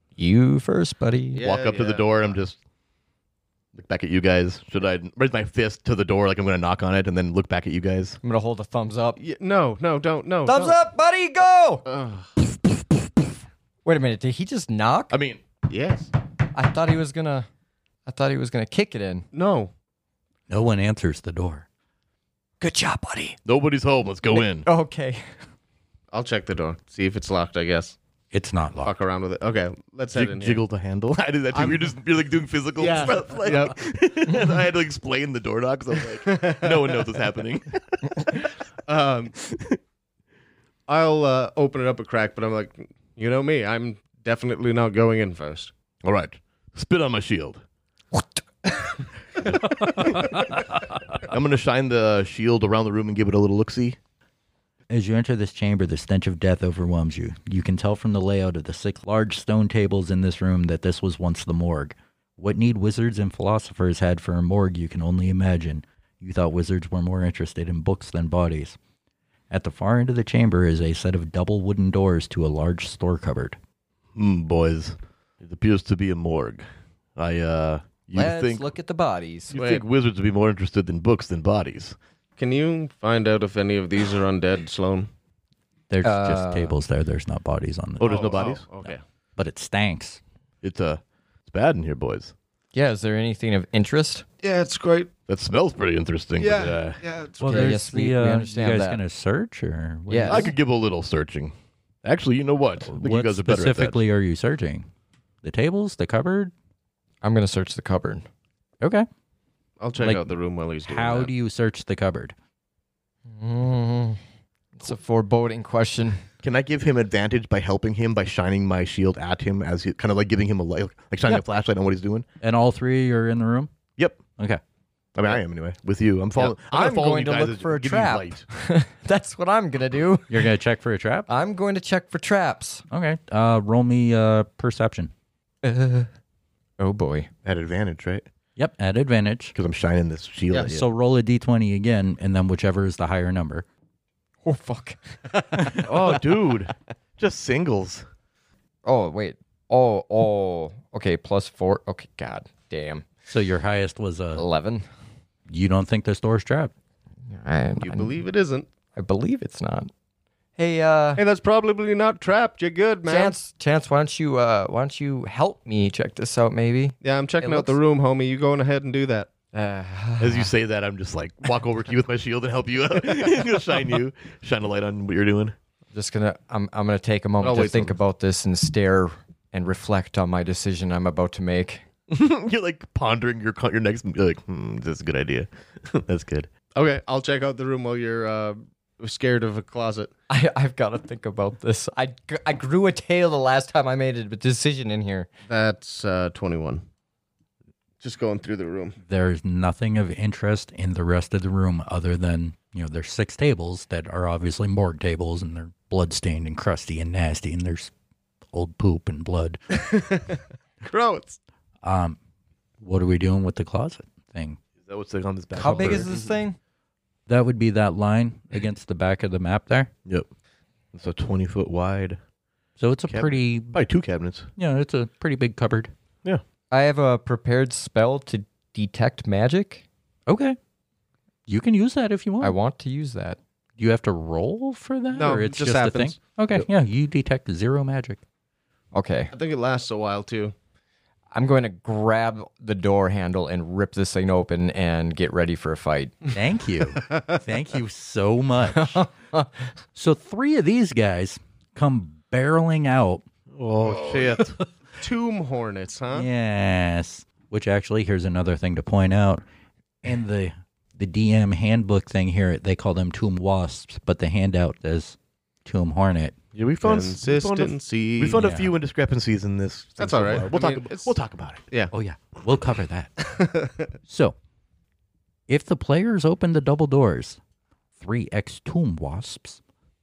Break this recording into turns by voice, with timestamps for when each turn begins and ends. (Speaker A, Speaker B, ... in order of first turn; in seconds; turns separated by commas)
Speaker A: 0.2-1.4, Speaker B: 1.3-2.4, Speaker C: 1.4-2.6, Speaker C: 3.7-8.2, Speaker A: 8.2-9.2, Speaker B: 9.2-10.8, Speaker A: 10.4-11.8, Speaker B: 11.8-12.3, Speaker A: 13.8-15.2, Speaker C: 15.1-15.4, Speaker B: 15.7-16.1, Speaker A: 16.5-17.5, Speaker A: 18.1-19.3, Speaker B: 19.3-19.7, Speaker D: 20.5-21.6, Speaker A: 22.6-23.4, Speaker C: 23.4-24.7, Speaker A: 24.3-25.3, Speaker B: 26.1-28.0, Speaker D: 28.3-28.9, Speaker B: 28.8-30.6, Speaker C: 30.1-38.3, Speaker B: 31.5-31.9, Speaker B: 32.8-33.8, Speaker B: 36.2-37.0, Speaker B: 38.9-39.3, Speaker C: 39.5-39.8, Speaker B: 40.9-45.7, Speaker C: 46.0-47.6, Speaker C: 49.6-50.4, Speaker C: 51.1-54.0, Speaker D: 54.9-68.8, Speaker D: 69.5-73.6, Speaker C: 74.1-78.7, Speaker A: 78.1-79.5, Speaker C: 79.5-82.0, Speaker B: 79.5-79.8, Speaker B: 82.4-85.1, Speaker D: 85.9-90.2, Speaker A: 86.0-86.8, Speaker C: 88.0-88.6, Speaker B: 88.0-89.0, Speaker C: 90.6-92.3, Speaker A: 92.7-94.2, Speaker B: 94.4-95.1, Speaker C: 95.3-97.0, Speaker B: 96.4-97.8, Speaker D: 97.4-100.5, Speaker A: 97.4-99.0, Speaker A: 100.1-100.5, Speaker C: 100.2-104.0, Speaker D: 102.8-104.9, Speaker D: 105.4-106.5, Speaker A: 107.2-108.3, Speaker D: 108.8-109.1, Speaker B: 109.8-111.3, Speaker D: 110.8-112.3, Speaker A: 113.3-114.2, Speaker A: 114.8-116.2, Speaker C: 116.4-122.2, Speaker D: 122.4-123.7, Speaker C: 125.1-128.5, Speaker A: 126.3-130.4, Speaker D: 130.3-131.3, Speaker A: 131.3-132.8, Speaker D: 132.9-135.1, Speaker A: 135.6-136.1, Speaker A: 136.8-137.3, Speaker C: 137.4-138.2, Speaker D: 138.6-139.5, Speaker C: 139.5-140.8, Speaker B: 140.5-140.8, Speaker D: 140.6-143.7, Speaker A: 144.4-146.1, Speaker D: 145.6-145.9, Speaker C: 145.8-148.0, Speaker A: 148.8-153.0, Speaker D: 153.3-154.4, Speaker A: 154.3-154.8, Speaker D: 155.5-156.7, Speaker A: 157.3-158.2, Speaker B: 157.8-158.7, Speaker A: 158.9-159.9, Speaker A: 160.6-161.2, Speaker B: 161.2-163.4, Speaker A: 163.1-167.8, Speaker B: 167.0-169.3, Speaker A: 169.5-170.5, Speaker C: 170.2-175.6, Speaker A: 175.9-181.8, Speaker B: 177.4-178.0, Speaker C: 182.1-186.5, Speaker B: 186.7-190.1, Speaker A: 190.3-195.3, Speaker B: 195.5-196.8, Speaker B: 198.0-198.9, Speaker D: 199.1-207.9, Speaker D: 208.5-209.6, Speaker B: 209.7-211.4, Speaker D: 211.8-212.2, Speaker D: 212.8-214.6, Speaker C: 214.8-216.3, Speaker A: 215.5-216.6, Speaker D: 215.7-216.1, Speaker D: 217.3-219.9, Speaker C: 220.9-222.2, Speaker D: 222.8-223.8, Speaker C: 223.1-224.5, Speaker D: 224.6-225.9, Speaker A: 226.7-229.8, Speaker D: 230.3-230.6, Speaker D: 231.5-232.6, Speaker A: 232.4-233.4, Speaker D: 233.8-238.2, Speaker B: 235.1-236.2, Speaker A: 238.9-239.3, Speaker B: 239.3-240.5, Speaker A: 241.3-246.3, Speaker D: 246.3-249.0, Speaker A: 248.7-249.5, Speaker D: 249.9-253.2, Speaker C: 253.5-254.6, Speaker B: 255.0-256.3, Speaker D: 256.1-259.4, Speaker D: 260.0-266.4, Speaker C: 266.5-271.6, Speaker B: 266.8-268.4, Speaker D: 268.3-268.7, Speaker B: 270.0-271.1, Speaker D: 271.9-273.1, Speaker B: 273.2-273.9, Speaker D: 274.1-274.4, Speaker D: 275.5-277.4, Speaker D: 278.0-279.6